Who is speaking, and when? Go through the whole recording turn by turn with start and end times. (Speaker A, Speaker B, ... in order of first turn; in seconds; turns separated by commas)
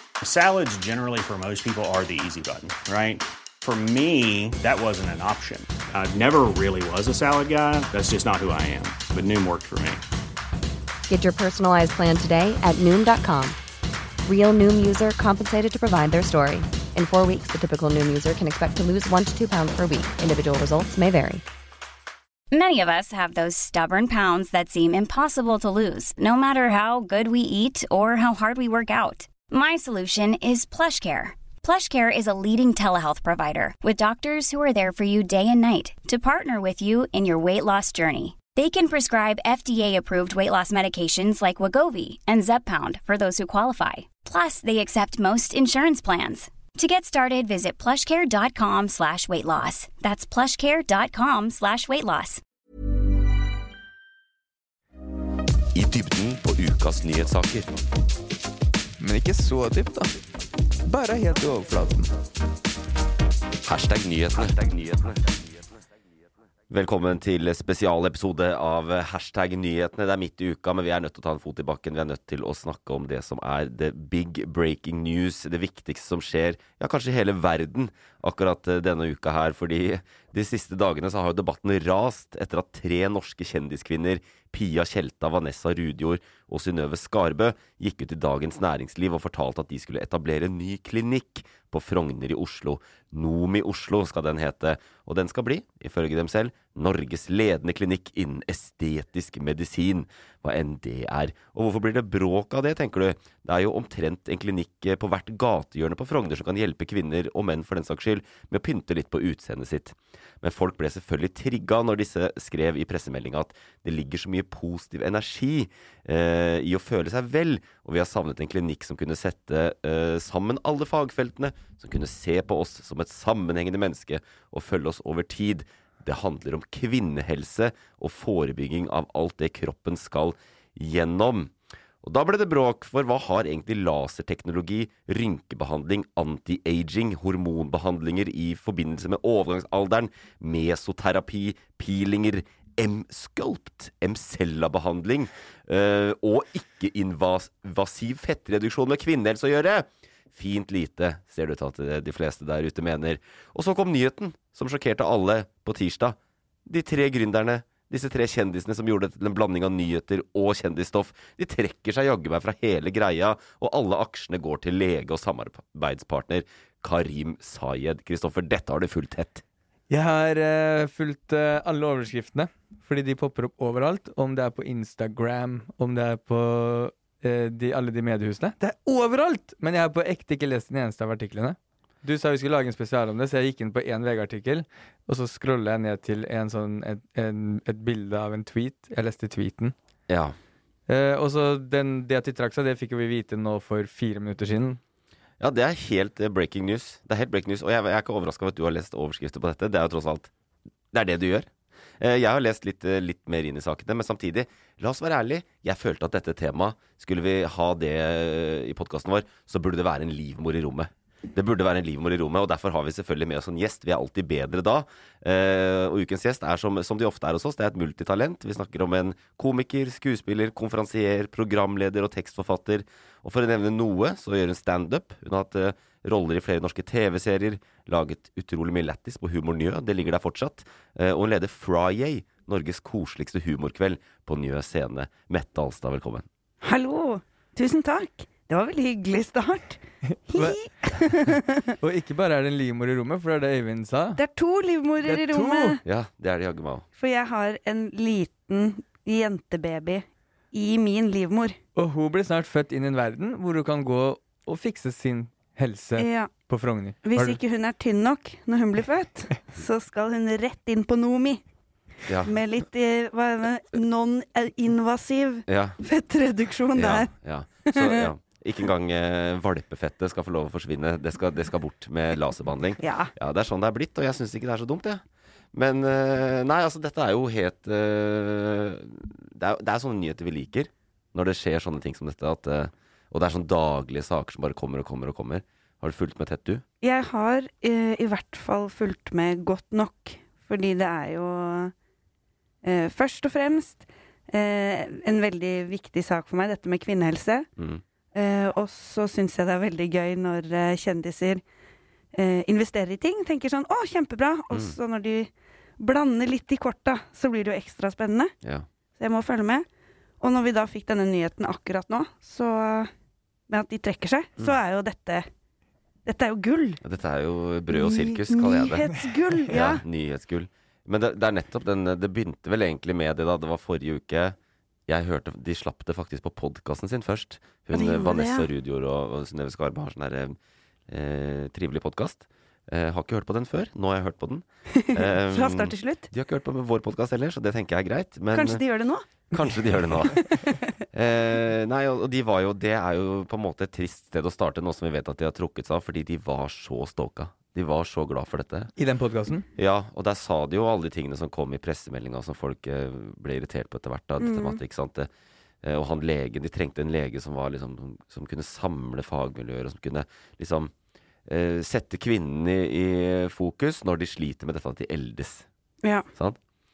Speaker A: 0.2-10.0, Speaker B: 11.1-13.6, Speaker B: 14.2-21.4, Speaker C: 22.5-52.4, Speaker D: 55.7-57.8, Speaker E: 59.0-60.1, Speaker E: 60.9-62.1, Speaker D: 63.6-65.2, Speaker D: 66.7-169.4, Speaker E: 169.9-189.7, Speaker D: 190.1-190.3, Speaker E: 190.9-194.8, Speaker D: 195.4-200.3, Speaker D: 200.9-236.3, Speaker F: 236.6-241.7, Speaker E: 240.1-240.6, Speaker E: 241.8-244.2, Speaker F: 244.2-245.8, Speaker E: 245.0-245.8, Speaker D: 245.8-246.8, Speaker F: 247.0-251.6, Speaker E: 251.8-257.4, Speaker F: 256.0-256.3, Speaker F: 257.0-261.4, Speaker D: 262.1-262.3, Speaker F: 262.2-267.1, Speaker D: 265.5-265.8, Speaker D: 266.8-286.6, Speaker F: 267.6-268.1, Speaker F: 272.8-273.1, Speaker F: 286.8-291.7, Speaker F: 292.6-297.5, Speaker D: 297.6-297.8, Speaker F: 298.1-301.4, Speaker F: 302.1-308.3, Speaker D: 304.5-304.8, Speaker D: 308.4-308.7, Speaker F: 309.0-309.6, Speaker F: 310.2-312.9, Speaker F: 313.5-315.2, Speaker F: 316.1-316.8, Speaker D: 316.8-318.9, Speaker F: 317.7-319.8, Speaker E: 318.9-319.6, Speaker D: 319.5-324.4, Speaker D: 324.9-330.4, Speaker F: 327.7-328.5, Speaker D: 330.9-338.6, Speaker F: 334.8-336.1, Speaker F: 338.3-339.0, Speaker D: 339.3-348.7, Speaker E: 348.8-349.4, Speaker D: 349.6-355.1, Speaker F: 354.2-354.6, Speaker D: 355.6-360.7, Speaker D: 361.2-365.5